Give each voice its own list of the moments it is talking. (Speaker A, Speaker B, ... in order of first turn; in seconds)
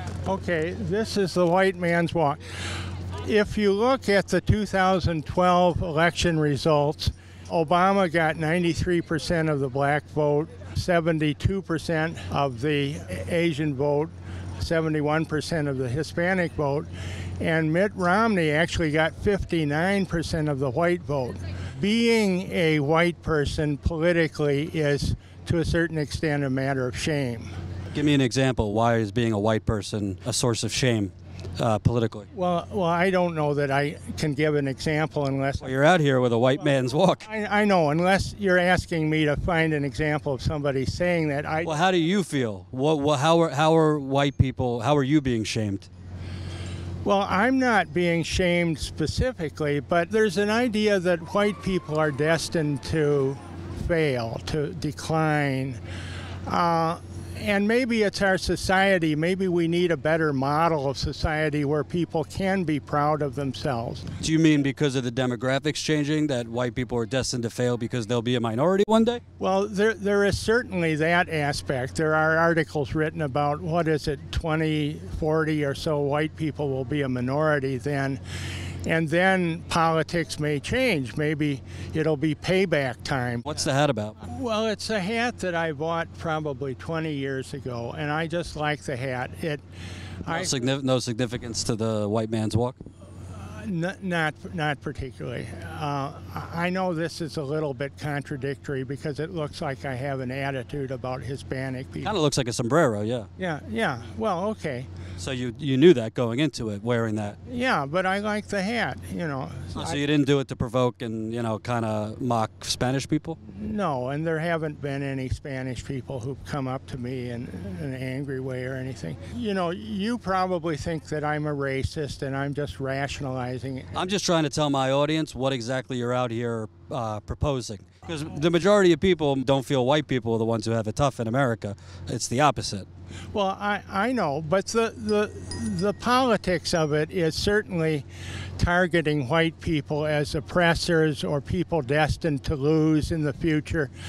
Speaker A: 0.2-2.4, 3.2-27.5, 32.3-35.7, 37.2-41.8, 47.0-55.8, 56.5-64.1, 69.4-78.2, 78.8-83.5, 84.2-89.6, 90.2-90.5, 93.3-102.1, 103.4-104.9, 107.5-110.0, 113.5-124.1, 133.3-138.1, 138.6-143.9
Speaker B: 27.9-32.3, 35.6-37.2, 41.6-45.9, 64.2-69.2, 83.5-84.2, 90.3-92.8, 102.0-103.3, 105.2-107.4, 109.8-113.4, 123.9-132.8